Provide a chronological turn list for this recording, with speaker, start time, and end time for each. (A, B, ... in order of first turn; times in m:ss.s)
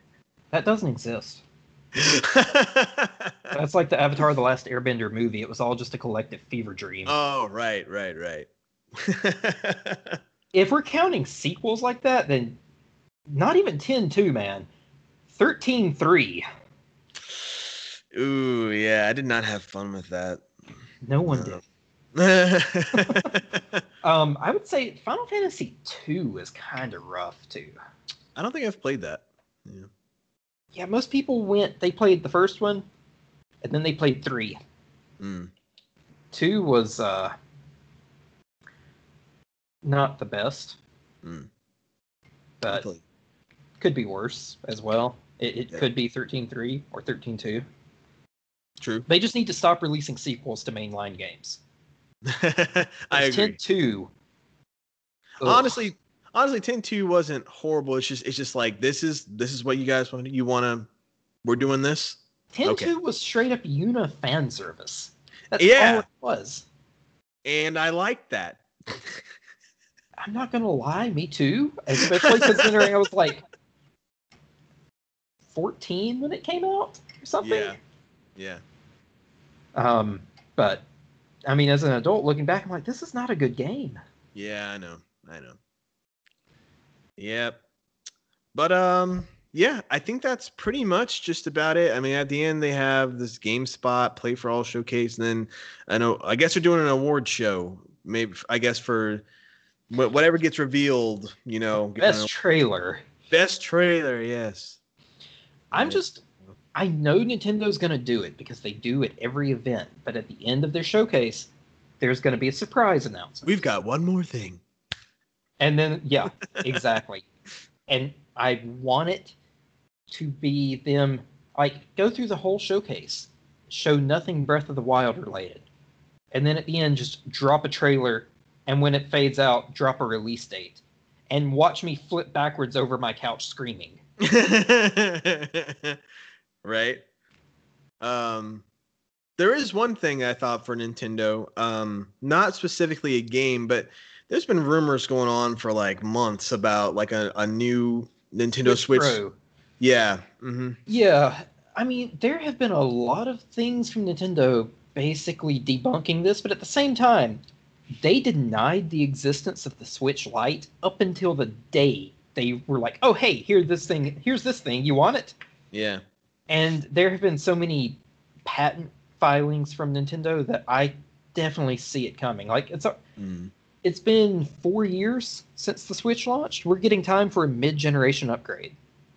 0:00.5-0:01.4 A
0:02.0-0:03.5 B
0:03.5-0:07.2 A
0:07.1-0:10.2 B
0:10.5-0:12.6 A
0:13.3-0:14.7 A
0:15.3-0:16.4 A
0:18.1-0:20.5 B
0:21.0-0:21.6 A
0:21.3-0:21.6 B
0:22.2-0:23.8 B
0:22.9-0:23.4 A
0:24.0-0:27.8 A
0:28.4-0:29.9 B
0:30.7-0:32.8 A
0:33.6-0:34.6 A
0:35.2-0:35.5 B
0:36.3-0:37.4 A
0:39.8-0:40.8 A
0:41.2-0:41.5 B
0:42.6-0:42.9 A
0:42.7-0:43.0 B
0:43.8-0:47.6 A
0:48.8-0:49.1 B
0:49.1-0:51.6 A
0:52.2-0:53.6 B
0:53.1-0:54.1 A
0:55.4-0:55.8 A
0:55.4-1:00.9 B
1:01.4-1:02.9 B
1:02.5-1:06.7 A
1:05.6-1:06.0 B
1:07.4-1:09.2 B
1:10.2-1:13.4 A
1:12.0-1:12.9 B
1:15.5-1:17.8 A
1:17.4-1:17.8 B
1:18.4-1:18.6 B
1:19.8-1:20.8 A
1:21.5-1:24.0 A
1:24.4-1:25.6 B
1:27.2-1:27.6 B
1:28.5-1:39.2 B
1:39.9-1:42.3 B
1:42.0-1:43.0 A
1:43.3-1:44.8 B
1:45.7-1:46.2 A
1:45.7-1:46.0 B
1:46.8-1:51.5 A
1:52.0-1:53.5 A
1:53.4-1:54.6 B
1:55.6-1:57.3 A
1:57.9-1:59.4 A
2:00.1-2:05.6 A
2:06.3-2:14.0 A
2:14.2-2:16.0 B
2:16.6-2:17.0 B
2:18.0-2:18.6 B
2:19.4-2:29.2 B
2:28.6-2:29.4 A
2:29.8-2:30.8 B
2:30.9-2:37.4 A
2:37.9-2:45.4 A
2:45.7-2:46.0 B
2:46.5-2:53.0 A
2:53.2-2:53.5 B
2:53.8-2:58.8 A